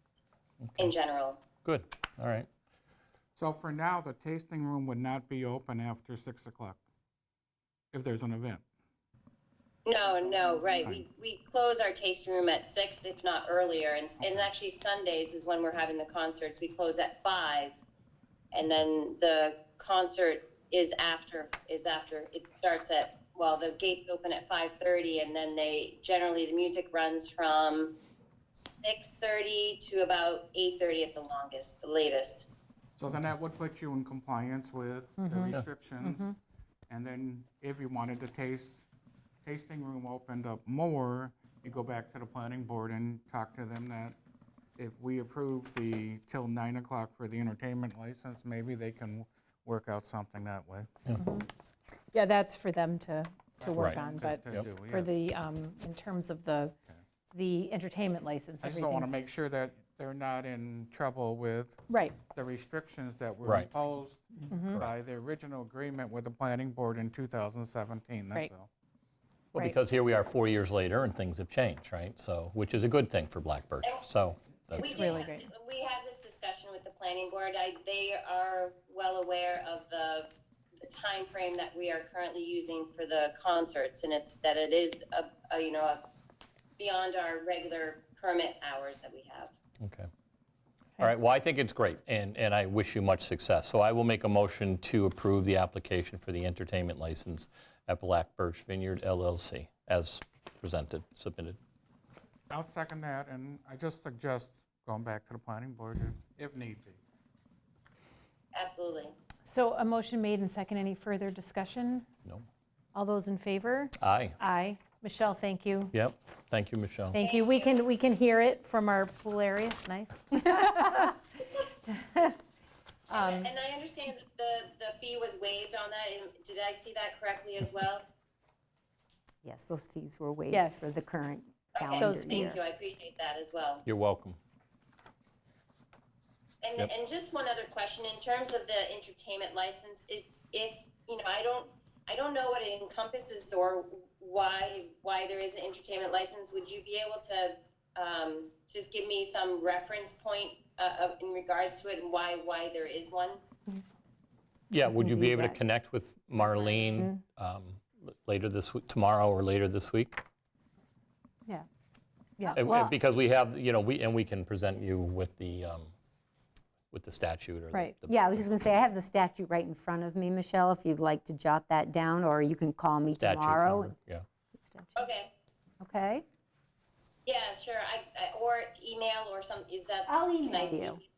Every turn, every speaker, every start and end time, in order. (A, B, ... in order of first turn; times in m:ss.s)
0:00.6-0:00.9 A
0:00.8-0:01.4 B
0:01.6-0:02.5 A
0:03.4-0:06.8 C
0:07.9-0:08.6 C
0:09.8-0:17.8 B
0:10.1-0:11.0 C
0:14.2-0:14.5 C
0:18.5-0:28.0 B
0:28.5-0:32.5 B
0:33.0-0:36.2 C
0:35.2-0:36.4 D
0:36.9-0:38.8 C
0:39.4-0:44.2 C
0:44.8-0:50.9 C
0:51.2-0:51.5 D
0:52.1-0:56.7 D
0:53.6-0:55.1 C
0:53.7-0:54.0 A
0:57.3-0:59.2 D
0:58.6-1:01.8 C
1:01.9-1:02.2 D
1:02.3-1:08.7 C
1:03.4-1:03.7 A
1:04.5-1:04.8 D
1:09.5-1:15.1 A
1:14.7-1:20.3 B
1:14.8-1:15.5 D
1:20.9-1:26.0 B
1:26.8-1:29.5 B
1:29.8-1:30.1 A
1:31.0-1:41.6 A
1:42.5-1:47.0 C
1:48.5-1:49.2 B
1:49.4-1:52.1 D
1:52.9-1:55.9 D
1:54.0-1:54.4 A
1:55.9-1:57.2 A
1:57.1-2:01.2 D
1:57.1-1:57.8 B
2:01.9-2:02.4 D
2:03.1-2:03.5 D
2:03.1-2:08.0 B
2:09.4-2:12.6 E
2:10.5-2:11.0 D
2:11.8-2:13.8 B
2:12.0-2:12.6 D
2:13.8-2:14.4 A
2:16.6-2:33.4 B
2:34.7-2:40.2 A
2:34.8-2:35.6 E
2:42.4-2:42.9 D
2:42.5-2:45.9 A
2:46.9-2:48.2 A
2:48.1-2:53.9 E
2:53.2-2:54.2 A
2:54.5-2:55.0 E
2:55.0-2:55.3 B
2:55.8-2:56.2 E
2:57.2-3:01.0 B
3:00.1-3:01.0 E